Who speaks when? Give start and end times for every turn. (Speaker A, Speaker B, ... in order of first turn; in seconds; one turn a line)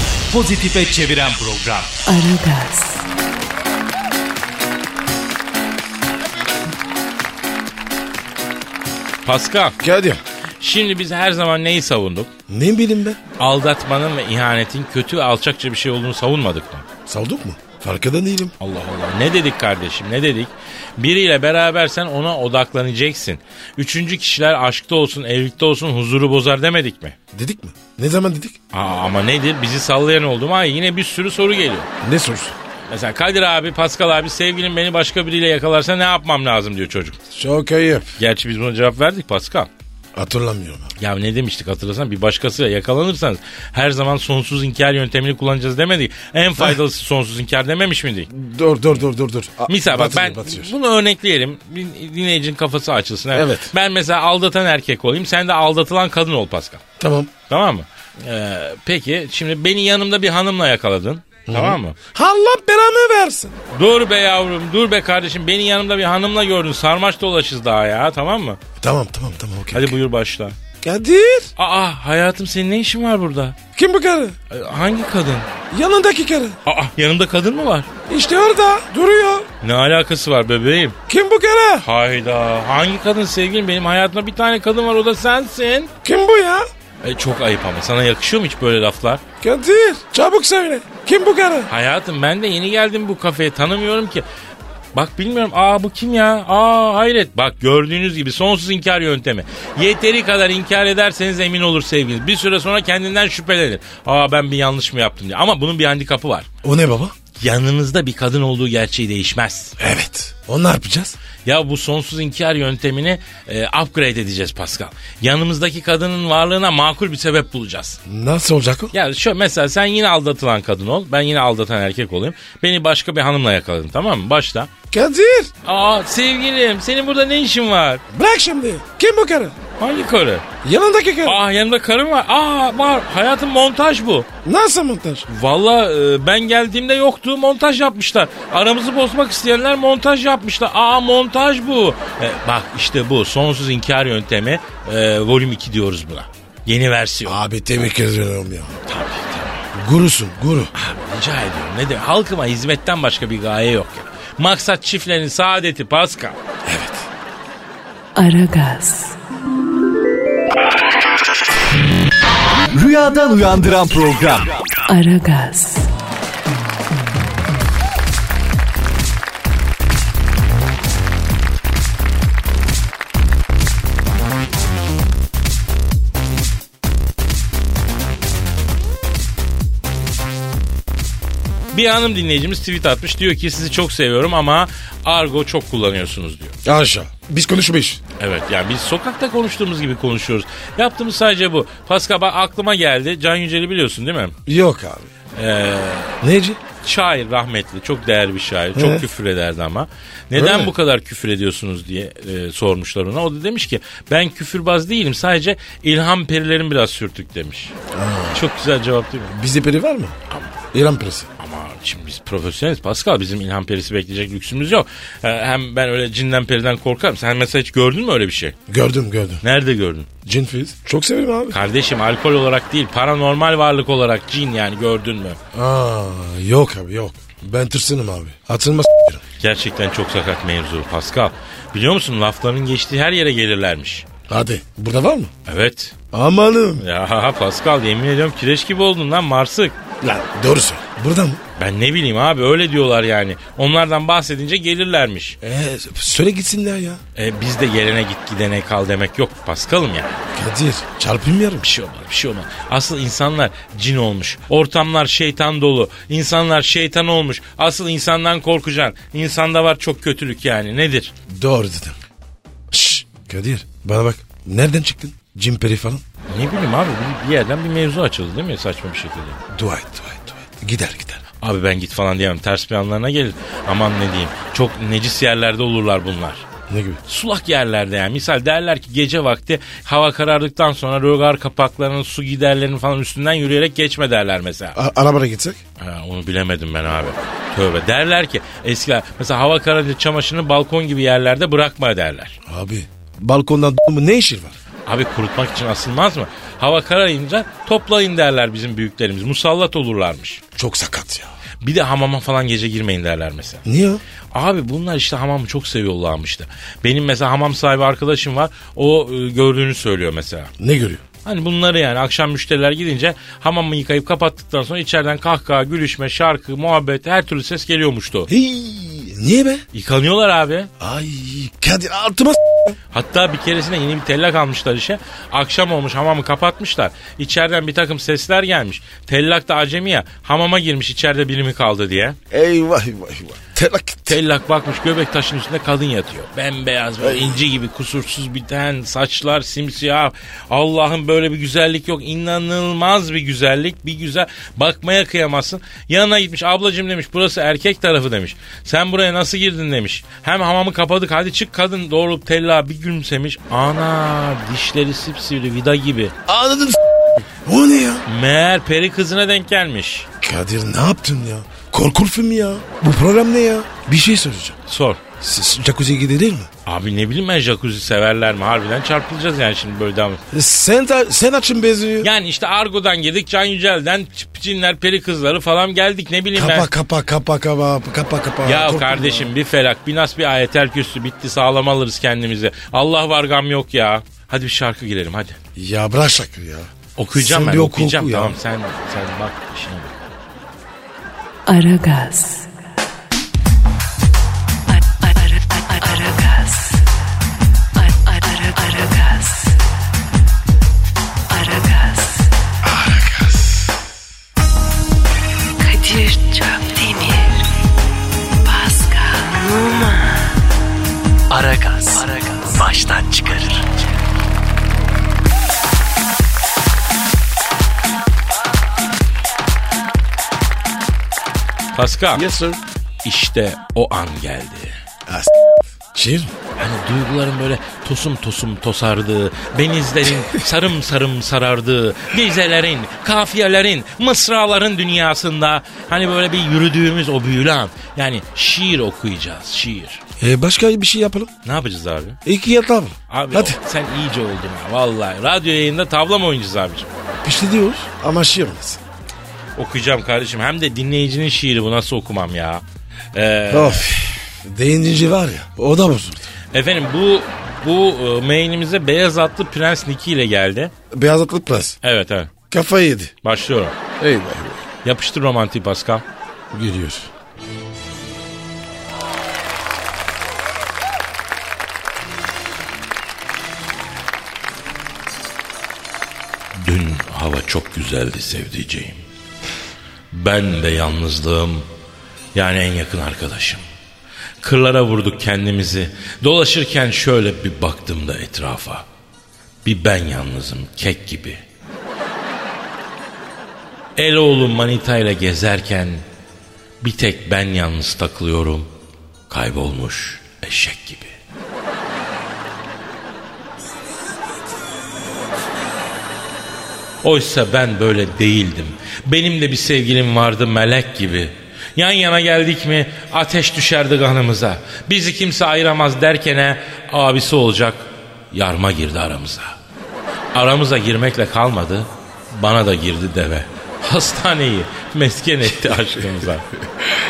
Speaker A: 0.3-2.0
Speaker B: 2.0-3.0
Speaker C: 9.2-9.8
Speaker D: 9.8-10.2
Speaker C: 10.6-12.3
Speaker D: 12.5-13.2
Speaker C: 13.4-16.9
Speaker D: 17.1-18.5
Speaker C: 18.6-27.1
Speaker D: 27.3-28.6
Speaker C: 28.7-31.9
Speaker D: 32.0-32.5
Speaker C: 32.9-37.2
Speaker D: 37.3-38.1
Speaker C: 38.2-39.7
Speaker D: 40.1-40.9
Speaker C: 41.0-48.3
Speaker D: 48.3-50.7
Speaker C: 49.7-56.8
Speaker D: 53.3-53.7
Speaker D: 57.0-57.3
Speaker C: 57.5-62.0
Speaker D: 61.5-63.5
Speaker C: 63.7-68.6
Speaker D: 68.8-70.0
Speaker C: 69.7-70.5
Speaker D: 70.8-71.5
Speaker C: 71.6-73.6
Speaker D: 73.7-74.3
Speaker C: 74.5-75.5
Speaker D: 75.7-76.6
Speaker C: 76.7-77.9
Speaker D: 78.1-79.5
Speaker C: 79.6-81.0
Speaker D: 81.1-81.8
Speaker C: 81.8-85.9
Speaker D: 86.0-86.7
Speaker C: 87.0-89.2
Speaker D: 89.4-91.7
Speaker C: 91.7-94.2
Speaker C: 94.9-106.5
Speaker D: 106.6-107.1
Speaker C: 107.4-109.7
Speaker D: 109.8-111.2
Speaker C: 111.4-118.0
Speaker D: 118.0-118.9
Speaker C: 118.9-124.7
Speaker D: 124.9-125.5
Speaker C: 125.6-128.0
Speaker D: 128.1-129.6
Speaker C: 129.8-130.4
Speaker D: 130.6-131.4
Speaker C: 131.2-134.3
Speaker D: 134.4-135.2
Speaker C: 135.3-147.4
Speaker D: 147.2-148.8
Speaker C: 148.9-149.6
Speaker D: 149.7-150.7
Speaker C: 150.7-156.4
Speaker D: 156.6-157.1
Speaker B: 158.1-159.2
Speaker A: 162.7-164.6
Speaker B: 164.8-165.9
Speaker C: 181.7-186.6
Speaker D: 186.6-188.0
Speaker C: 188.2-194.3
Speaker D: 194.4-195.1
Speaker C: 195.3-196.2
Speaker D: 196.2-196.6
Speaker C: 196.8-207.7
Speaker D: 198.7-199.1
Speaker D: 200.3-200.7
Speaker D: 207.9-208.4
Speaker C: 208.3-209.3
Speaker D: 209.3-210.2
Speaker D: 210.7-211.3
Speaker C: 211.4-218.6
Speaker D: 218.7-219.4
Speaker C: 219.4-220.1
Speaker D: 220.2-221.6
Speaker C: 221.5-225.4
Speaker D: 225.5-229.2
Speaker C: 229.4-234.1
Speaker D: 234.3-235.3
Speaker C: 235.4-235.9
Speaker D: 236.1-236.8
Speaker C: 236.8-239.8
Speaker D: 240.0-241.4
Speaker C: 241.6-245.4
Speaker D: 245.4-247.0
Speaker C: 247.2-250.2
Speaker D: 250.3-251.7
Speaker C: 251.6-261.1
Speaker D: 261.3-262.0
Speaker D: 262.7-266.0
Speaker C: 266.3-269.4
Speaker D: 269.5-271.2
Speaker C: 271.4-276.4
Speaker D: 276.7-277.0
Speaker C: 277.1-284.8
Speaker D: 284.7-285.6
Speaker C: 285.8-292.4
Speaker D: 292.4-294.5
Speaker C: 294.9-300.4
Speaker D: 300.5-301.3
Speaker C: 301.6-303.6
Speaker D: 303.6-304.0
Speaker C: 304.3-310.5
Speaker D: 310.6-311.0
Speaker C: 311.2-318.3
Speaker D: 318.3-319.6
Speaker C: 319.7-320.7
Speaker D: 320.8-322.8
Speaker C: 322.9-332.2
Speaker D: 332.3-334.2
Speaker C: 334.1-356.1
Speaker D: 337.0-337.4
Speaker D: 356.3-358.1
Speaker C: 358.1-360.1
Speaker D: 360.2-364.6
Speaker C: 364.7-365.0
Speaker D: 365.2-366.5
Speaker C: 366.6-370.2
Speaker D: 370.3-372.1
Speaker C: 372.0-376.7
Speaker D: 376.3-379.3
Speaker C: 378.4-385.4
Speaker D: 385.6-388.4
Speaker C: 386.9-390.0
Speaker B: 391.4-392.5
Speaker B: 394.7-396.8
Speaker B: 397.7-399.6
Speaker B: 401.3-402.3
Speaker D: 402.6-403.6
Speaker B: 405.6-407.5
Speaker B: 408.4-410.4
Speaker B: 411.3-413.6
Speaker A: 411.3-413.5
Speaker C: 421.7-422.2
Speaker D: 422.1-422.6
Speaker C: 423.0-424.8
Speaker D: 425.1-426.3
Speaker C: 426.6-440.0
Speaker D: 440.2-441.3
Speaker C: 441.4-442.2
Speaker D: 442.2-443.6
Speaker C: 443.1-446.9
Speaker D: 447.2-448.8
Speaker C: 449.6-452.6
Speaker C: 453.1-453.9
Speaker D: 453.5-456.3
Speaker C: 456.5-460.7
Speaker D: 460.9-461.8
Speaker C: 461.8-462.3
Speaker D: 462.5-463.1
Speaker C: 463.2-463.7
Speaker D: 464.0-464.6
Speaker C: 464.8-466.0
Speaker D: 466.5-467.1
Speaker C: 476.5-479.0
Speaker C: 480.1-481.7
Speaker C: 482.3-483.6
Speaker C: 484.4-488.9
Speaker C: 489.6-491.4
Speaker C: 494.0-496.0
Speaker C: 496.8-498.7
Speaker C: 499.3-501.1
Speaker C: 507.0-519.5
Speaker C: 520.3-526.5